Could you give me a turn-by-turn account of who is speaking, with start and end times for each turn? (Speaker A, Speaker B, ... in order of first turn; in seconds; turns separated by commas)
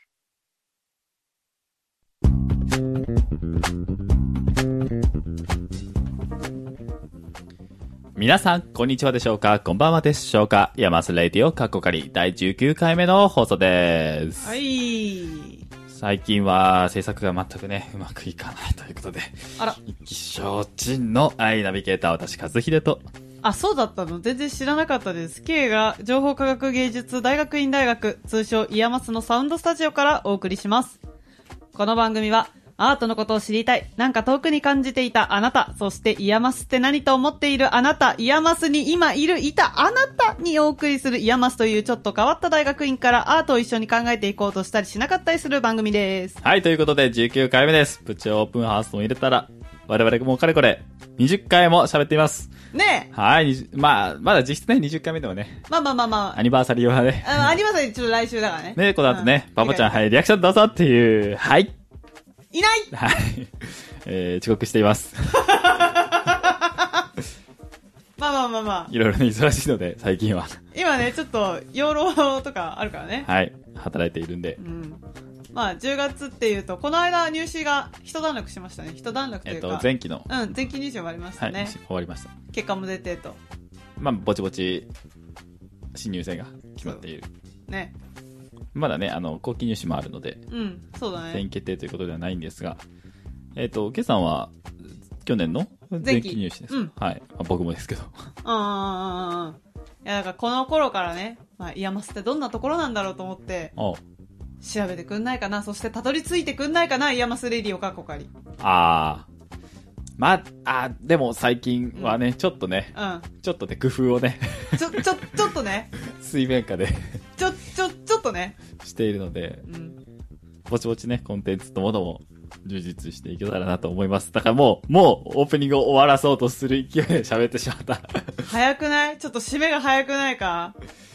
Speaker A: 8.2-14.5, Speaker B: 14.4-15.6, Speaker A: 15.9-23.0, Speaker B: 23.4-31.0, Speaker B: 31.7-46.4, Speaker A: 46.4-52.5, Speaker B: 52.7-53.1, Speaker A: 53.1-55.6, Speaker B: 55.7-56.4, Speaker A: 56.3-57.5, Speaker B: 57.2-59.9, Speaker A: 58.8-61.7, Speaker B: 62.5-62.9, Speaker A: 62.9-65.6, Speaker B: 65.4-67.0, Speaker B: 68.2-68.9, Speaker A: 68.9-70.6, Speaker B: 70.7-73.3, Speaker A: 73.2-74.6, Speaker B: 74.6-75.0, Speaker B: 75.5-81.7, Speaker A: 79.5-80.3, Speaker A: 81.4-82.3, Speaker B: 82.5-83.4, Speaker A: 84.0-84.9, Speaker A: 85.9-87.3, Speaker B: 87.7-87.9, Speaker A: 88.7-90.4, Speaker B: 90.5-91.4, Speaker A: 91.3-92.8, Speaker A: 93.5-94.5, Speaker A: 95.2-98.1, Speaker B: 96.0-96.9, Speaker B: 98.4-103.7, Speaker B: 104.6-108.3, Speaker A: 108.6-109.2, Speaker A: 110.2-115.0, Speaker B: 112.9-113.2, Speaker B: 114.7-115.9, Speaker A: 116.1-117.2, Speaker B: 117.4-118.6, Speaker A: 118.8-119.6, Speaker B: 119.7-120.0, Speaker A: 120.7-128.5, Speaker B: 128.5-130.7